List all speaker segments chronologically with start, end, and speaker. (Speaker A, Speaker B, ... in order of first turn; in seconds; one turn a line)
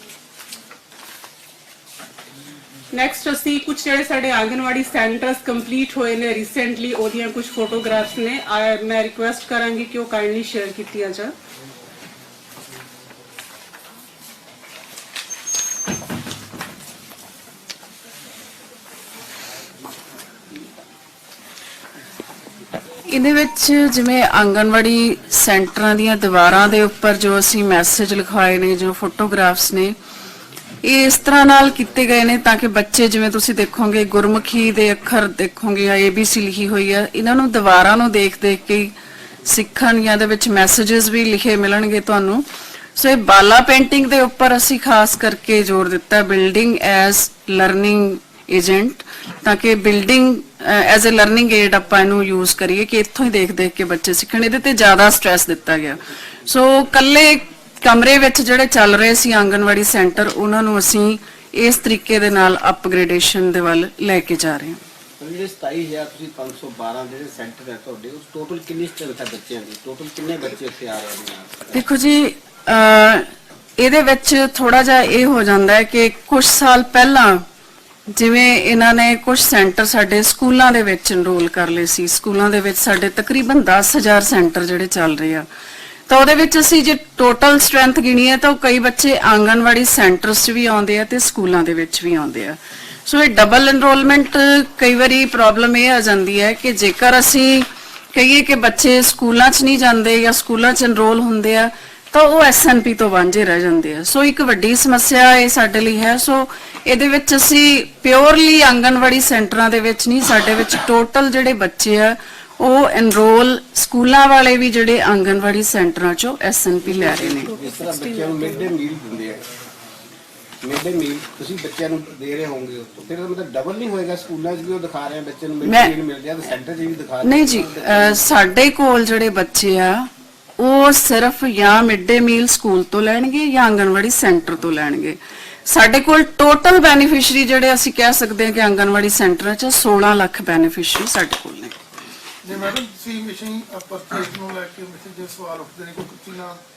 Speaker A: 2.9-11.3
Speaker B: 23.1-29.9
Speaker B: 30.8-38.9
Speaker B: 39.5-64.8
Speaker C: 65.2-71.8
Speaker B: 71.7-77.5
Speaker B: 78.1-85.5
Speaker B: 86.1-117.5
Speaker C: 116.9-119.4
Speaker A: 117.1-118.8
Speaker C: 120.6-128.2
Speaker B: 125.6-125.9
Speaker B: 127.2-141.8
Speaker D: 142.4-146.6